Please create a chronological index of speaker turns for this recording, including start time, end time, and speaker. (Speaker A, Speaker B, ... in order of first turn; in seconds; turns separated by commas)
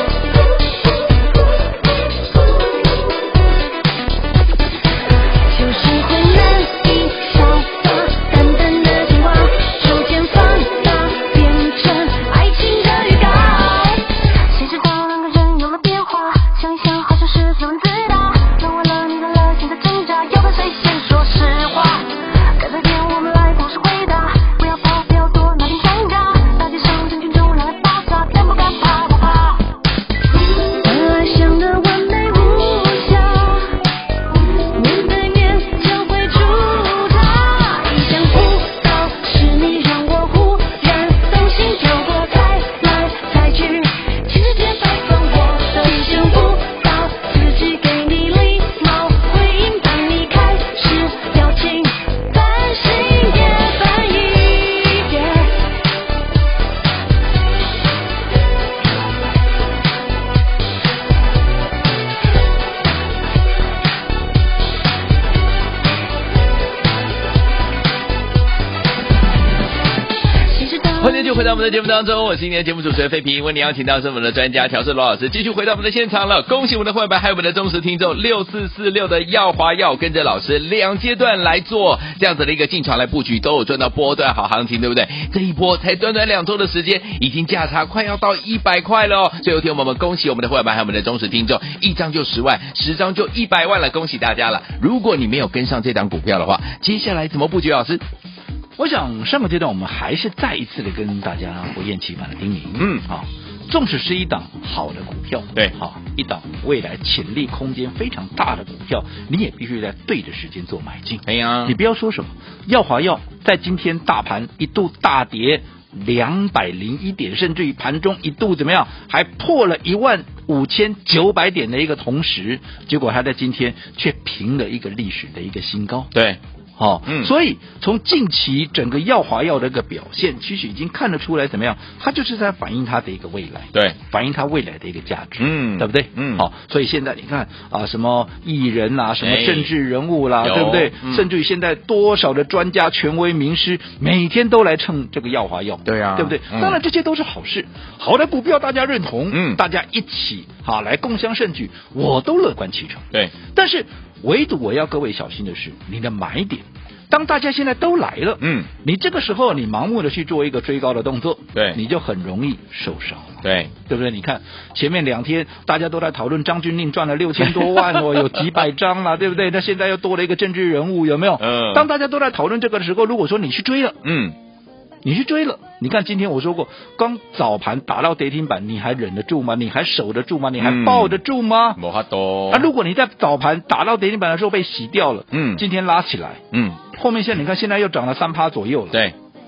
Speaker A: 5.5-29.7, Speaker A: 30.6-33.8, Speaker A: 34.7-55.7, Speaker A: 70.5-71.5, Speaker B: 71.0-98.0, Speaker C: 98.8-126.1, Speaker B: 102.8-103.0, Speaker B: 111.3-111.8, Speaker B: 126.1-126.4, Speaker C: 126.8-174.0, Speaker B: 127.1-127.3, Speaker B: 135.4-136.5, Speaker B: 139.2-139.7, Speaker B: 140.4-141.3, Speaker B: 145.8-146.8, Speaker B: 149.3-149.6, Speaker B: 158.4-158.7, Speaker B: 163.4-163.7, Speaker B: 167.4-168.4, Speaker B: 171.4-171.9, Speaker B: 174.0-174.4, Speaker C: 175.1-181.8, Speaker B: 180.6-181.2, Speaker B: 181.8-182.7, Speaker C: 182.5-189.0, Speaker B: 185.3-185.7, Speaker B: 186.5-186.8